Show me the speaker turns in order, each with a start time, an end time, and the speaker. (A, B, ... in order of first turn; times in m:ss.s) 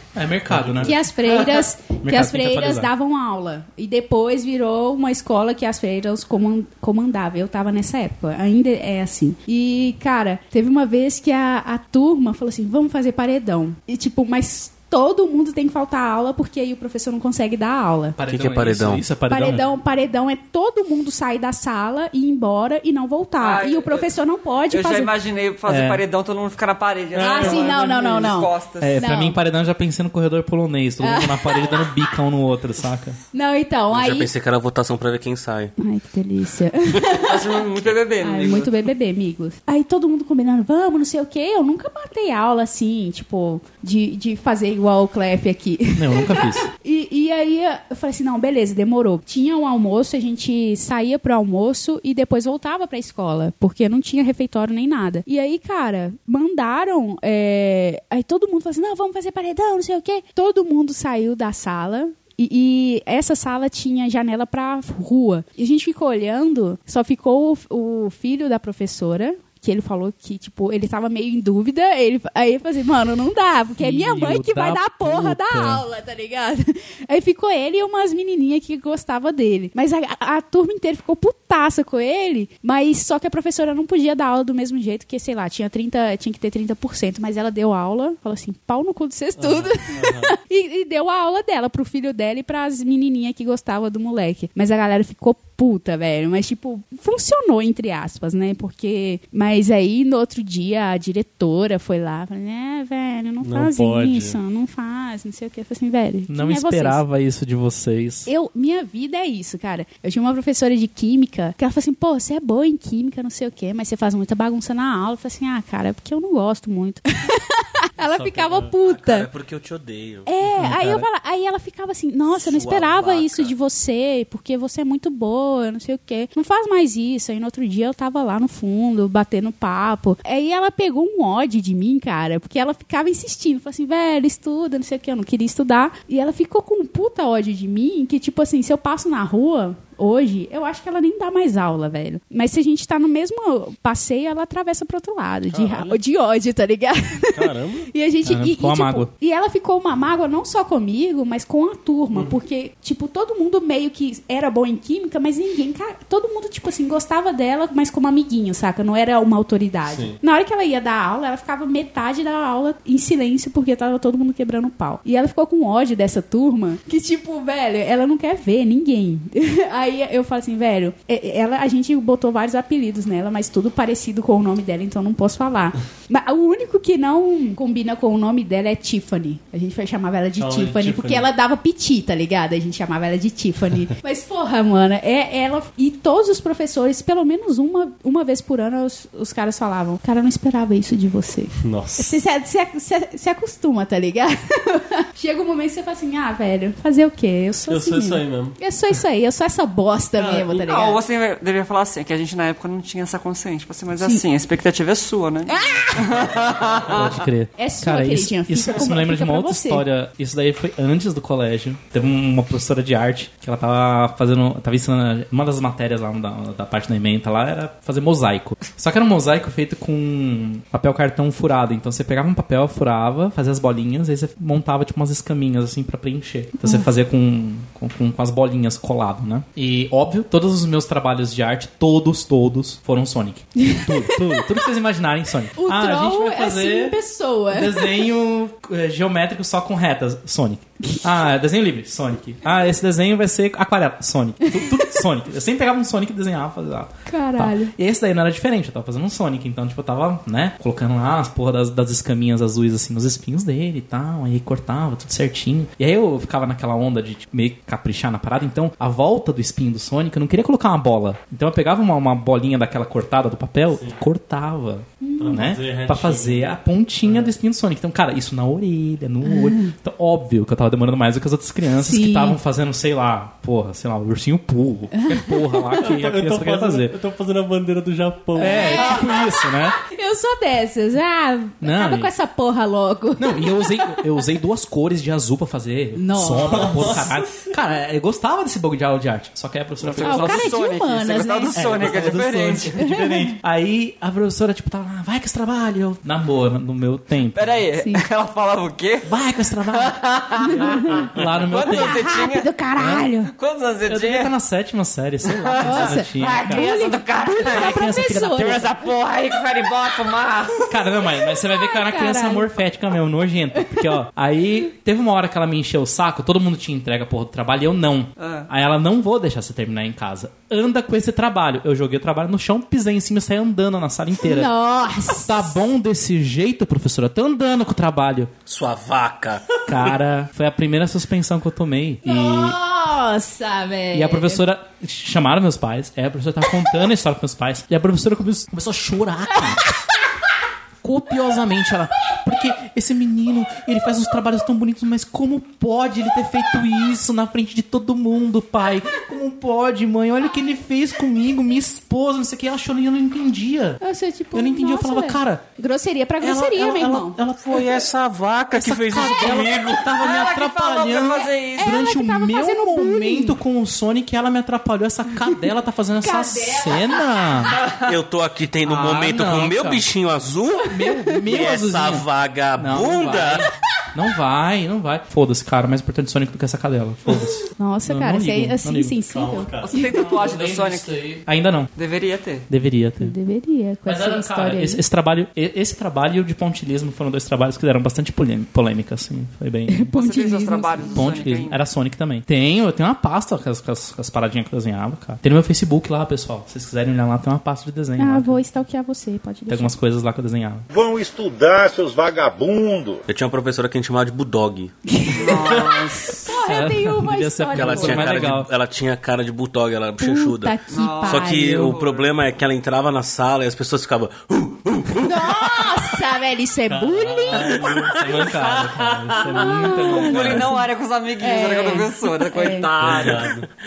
0:00.2-0:02.9 A
0:00.5-0:00.9 B
0:00.8-0:18.2 C
0:18.2-0:19.7 A
0:18.3-0:19.0 D
0:19.3-0:25.1 C
0:23.4-0:24.1 E
0:24.7-0:29.0 E
0:25.7-0:26.0 A
0:27.1-0:27.8 B
0:27.2-0:29.4 C
0:28.8-0:33.2 A
0:31.0-0:31.9 C
0:33.3-0:34.3 C
0:33.9-0:35.7 D
0:35.8-0:37.6 C
0:37.1-0:38.7 E
0:38.2-1:47.0 C
0:46.0-0:46.7 A
1:13.8-1:15.8 A
1:29.4-1:30.4 B
1:43.4-1:44.4 B
1:46.3-1:48.3 A
1:48.3-1:59.3 C
1:58.0-1:58.7 B
1:58.8-2:00.3 D
2:00.3-3:21.0 C
2:00.4-2:01.1 A
2:02.3-2:03.5 D
2:25.5-2:26.0 B
2:27.3-2:27.9 B
2:28.2-2:29.1 A
2:32.1-2:32.4 B
2:39.9-2:40.2 B
3:00.4-3:01.3 B
3:11.6-3:12.2 B
3:17.7-3:18.6 B
3:20.2-3:27.2 E
3:25.5-3:26.4 C
3:26.9-3:57.0 A
3:27.6-3:29.8 C
3:46.6-3:46.9 C
3:53.6-3:54.4 C
3:55.6-3:58.1 C
3:57.5-4:37.0 A
4:04.5-4:04.8 C
4:07.1-4:07.7 C
4:23.7-4:24.0 B
4:25.0-4:25.5 C
4:25.2-4:27.3 B
4:29.2-4:29.7 C
4:31.8-4:32.4 C
4:35.0-4:35.8 C
4:35.8-4:39.0 B
4:38.4-4:39.8 A
4:38.4-4:44.1 C
4:41.6-4:42.1 A
4:43.2-4:50.5 A
4:46.0-4:47.0 C
4:46.5-4:47.5 B
4:49.8-4:52.8 E
4:50.0-4:51.6 C
4:51.5-4:57.6 A
4:52.8-4:53.4 C
4:57.4-4:59.1 E
4:57.8-4:58.0 C
4:59.0-5:02.0 A
4:59.7-5:02.5 E
5:00.4-5:01.1 C
5:01.7-5:03.3 C
5:02.8-5:03.1 A
5:03.3-5:04.3 E
5:03.9-5:06.7 A
5:05.2-5:10.7 E
5:05.6-5:08.9 C
5:07.3-5:08.7 A
5:10.7-5:24.5 A
5:11.4-5:12.5 C
5:13.5-5:14.0 C
5:18.2-5:18.5 E
5:24.2-5:25.6 C
5:25.1-5:28.3 A
5:28.5-5:29.9 D
5:29.7-5:32.6 A
5:32.0-5:34.4 C
5:33.9-5:39.8 A
5:40.8-5:53.8 A
5:53.8-5:57.2 C
5:54.3-5:55.4 A
5:56.2-5:57.9 A
5:57.4-5:59.9 D
5:58.5-6:07.6 A
5:59.8-6:01.8 E
6:01.6-6:03.4 C
6:06.0-6:07.4 C
6:07.7-6:10.8 D
6:08.6-6:09.8 A
6:10.7-6:19.0 A
6:10.9-6:11.2 C
6:11.3-6:13.5 D
6:17.6-6:20.0 C
6:19.1-6:19.8 B
6:19.6-6:21.0 E
6:20.0-6:21.7 A
6:21.8-6:22.5 E
6:22.5-6:23.2 A
6:23.0-6:24.8 C
6:23.9-6:29.9 A
6:29.7-6:31.1 C
6:29.9-6:31.6 E
6:31.0-6:38.4 A
6:38.0-6:39.8 C
6:39.5-6:40.7 A
6:40.7-6:43.0 F
6:43.1-6:44.8 D
6:44.9-6:48.3 C
6:45.1-6:46.3 E
6:46.4-6:48.5 A
6:47.5-6:55.9 D
6:50.0-6:51.8 C
6:50.7-6:52.1 E
6:54.9-6:57.6 C
6:56.7-6:58.0 B
6:57.4-6:58.3 D
6:57.6-7:00.5 A
6:58.3-7:03.3 E
6:59.3-7:00.7 C
7:01.2-7:02.7 C
7:02.8-7:03.5 B